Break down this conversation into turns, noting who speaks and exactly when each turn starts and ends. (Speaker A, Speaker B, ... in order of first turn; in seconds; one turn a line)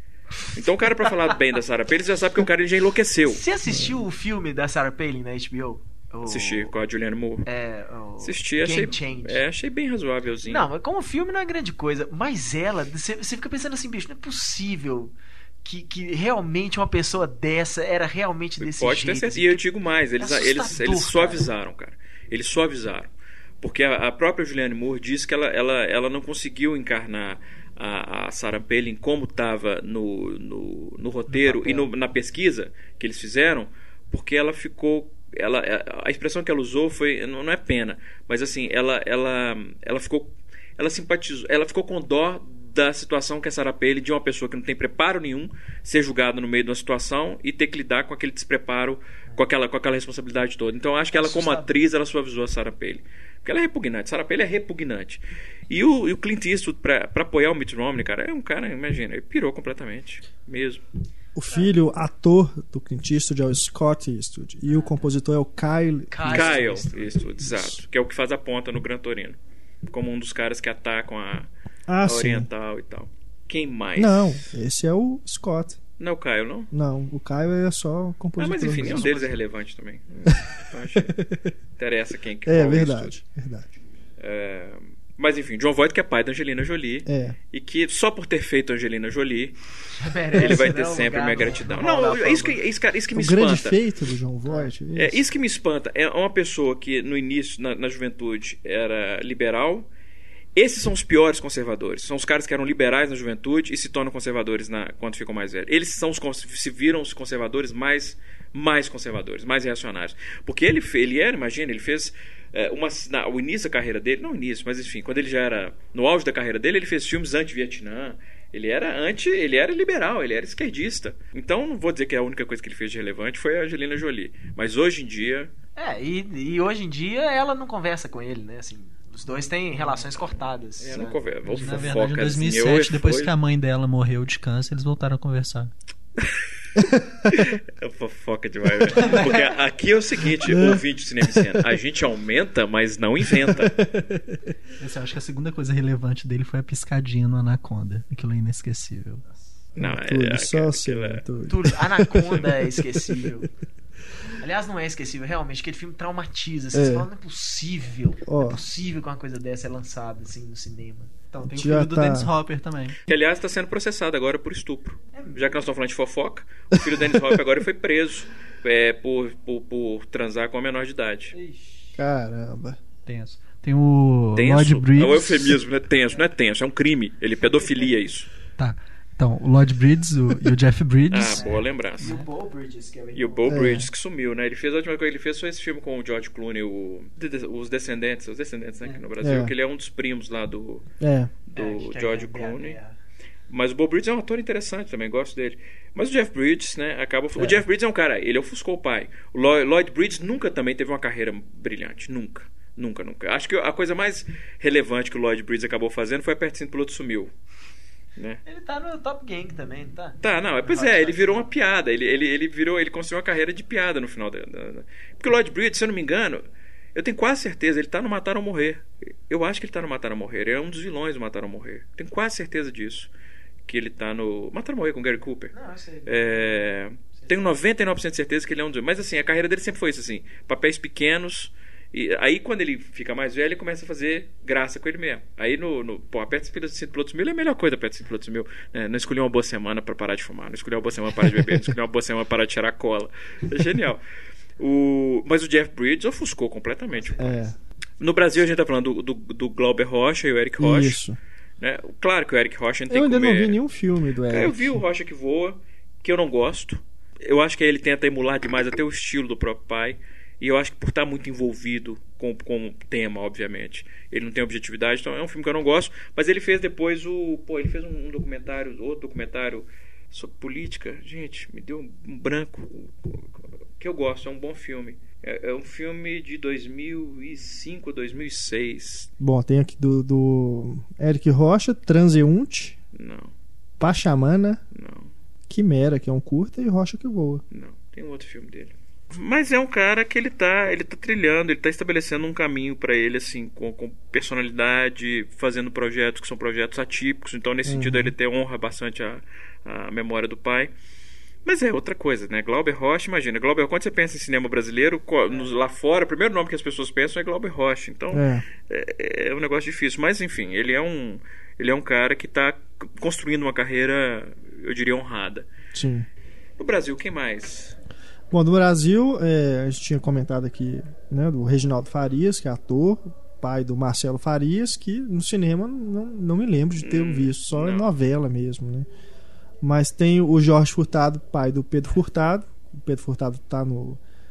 Speaker A: 0.5-3.4
Speaker B: 3.2-6.7
Speaker C: 3.7-4.0
Speaker A: 6.2-7.5
Speaker B: 7.5-9.4
Speaker A: 8.2-10.7
Speaker B: 10.4-19.6
Speaker A: 18.6-60.8
Speaker B: 20.2-21.5
Speaker B: 31.3-31.9
Speaker B: 51.1-51.8
Speaker C: 61.3-66.7
Speaker B: 64.7-65.0
Speaker B: 66.1-67.2
Speaker A: 66.2-69.4
Speaker C: 67.4-67.8
Speaker A: 69.9-71.5
Speaker C: 71.9-72.5
Speaker A: 72.0-74.5
Speaker C: 74.0-75.8
Speaker A: 76.0-76.7
Speaker C: 76.7-79.1
Speaker A: 78.4-81.2
Speaker D: 78.8-79.2
Speaker C: 81.0-81.5
Speaker A: 81.8-83.1
Speaker C: 82.4-83.7
Speaker A: 84.2-89.5
Speaker C: 87.0-87.4
Speaker B: 89.9-92.6
Speaker A: 90.3-93.8
Speaker C: 93.1-95.2
Speaker A: 94.9-99.9
Speaker A: 100.5-125.5
Speaker B: 125.8-131.8
Speaker A: 130.8-133.3
Speaker D: 131.5-135.7
Speaker C: 136.8-137.3
Speaker A: 137.3-143.8
Speaker D: 139.0-139.2
Speaker C: 140.4-141.6
Speaker C: 143.2-144.4
Speaker D: 144.8-149.3
Speaker A: 149.8-151.2
Speaker C: 149.8-153.4
Speaker B: 151.5-153.5
Speaker B: 154.4-161.1
Speaker C: 156.7-157.1
Speaker C: 158.2-158.6
Speaker D: 161.3-163.0
Speaker C: 161.5-162.3
Speaker A: 163.1-171.3
Speaker B: 165.1-165.6
Speaker C: 166.8-167.4
Speaker B: 171.3-171.9
Speaker C: 171.9-172.8
Speaker D: 173.1-175.6
Speaker A: 174.3-178.3
Speaker D: 178.6-182.3
Speaker A: 181.1-182.1
Speaker B: 181.3-183.6
Speaker A: 183.1-190.8
Speaker C: 183.5-183.9
Speaker C: 189.2-189.5
Speaker C: 191.0-191.3
Speaker A: 191.4-192.8
Speaker B: 191.5-192.9
Speaker A: 193.5-207.3
Speaker B: 208.4-211.5
Speaker A: 210.2-216.4
Speaker A: 216.9-223.1
Speaker A: 223.7-225.5
Speaker B: 225.5-226.6
Speaker A: 226.1-244.0
Speaker B: 227.1-227.4
Speaker C: 241.3-241.6
Speaker A: 244.6-247.4
Speaker B: 246.9-247.4
Speaker C: 247.2-247.5
Speaker A: 248.0-251.0
Speaker C: 250.6-251.2
Speaker A: 251.6-253.6
Speaker C: 252.9-254.8
Speaker A: 254.3-279.1
Speaker C: 279.2-282.8
Speaker A: 282.9-283.3
Speaker C: 283.8-284.6
Speaker A: 284.7-285.1
Speaker C: 285.5-287.4
Speaker A: 287.5-300.7
Speaker C: 297.6-298.1
Speaker A: 301.4-315.5
Speaker C: 308.1-308.4
Speaker C: 315.7-316.1
Speaker A: 316.6-317.8
Speaker C: 318.3-328.9
Speaker A: 326.8-327.9
Speaker C: 329.6-334.0